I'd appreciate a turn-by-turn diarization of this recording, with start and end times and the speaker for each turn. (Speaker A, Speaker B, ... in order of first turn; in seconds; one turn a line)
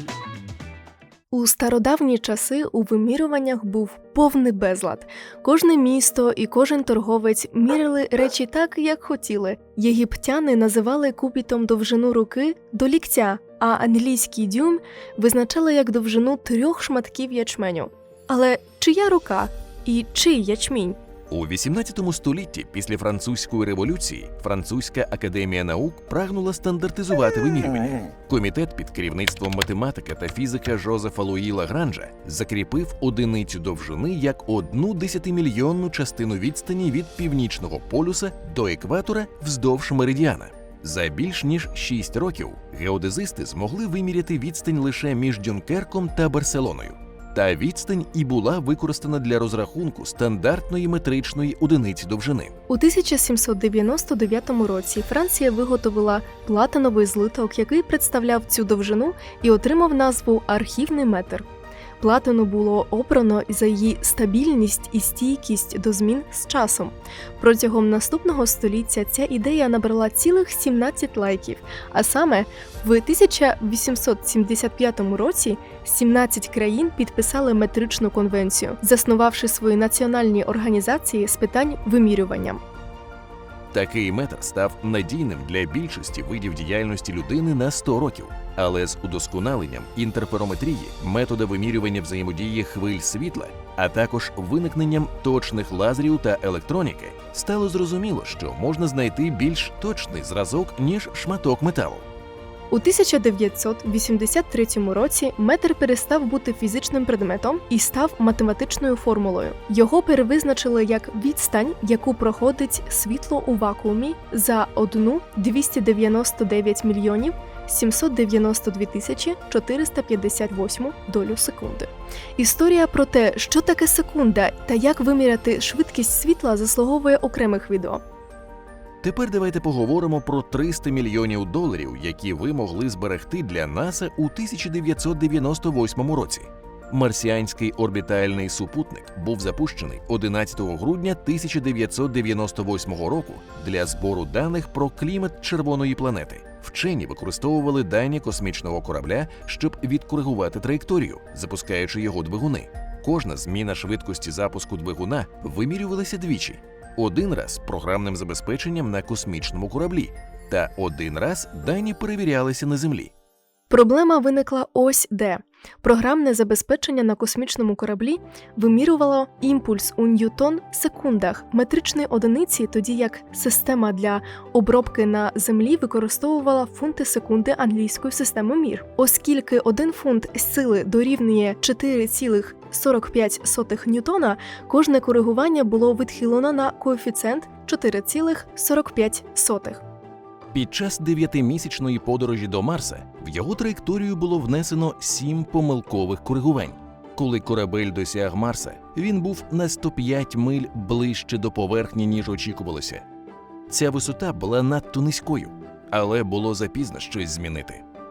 Speaker A: 1.3-21.0
Speaker B: 21.3-52.5
Speaker A: 52.7-61.5
Speaker A: 62.0-82.6
Speaker B: 83.7-102.0
Speaker A: 102.7-128.0
Speaker B: 129.0-163.1
Speaker A: 163.7-189.8
Speaker B: 190.5-203.0
Speaker B: 203.7-207.8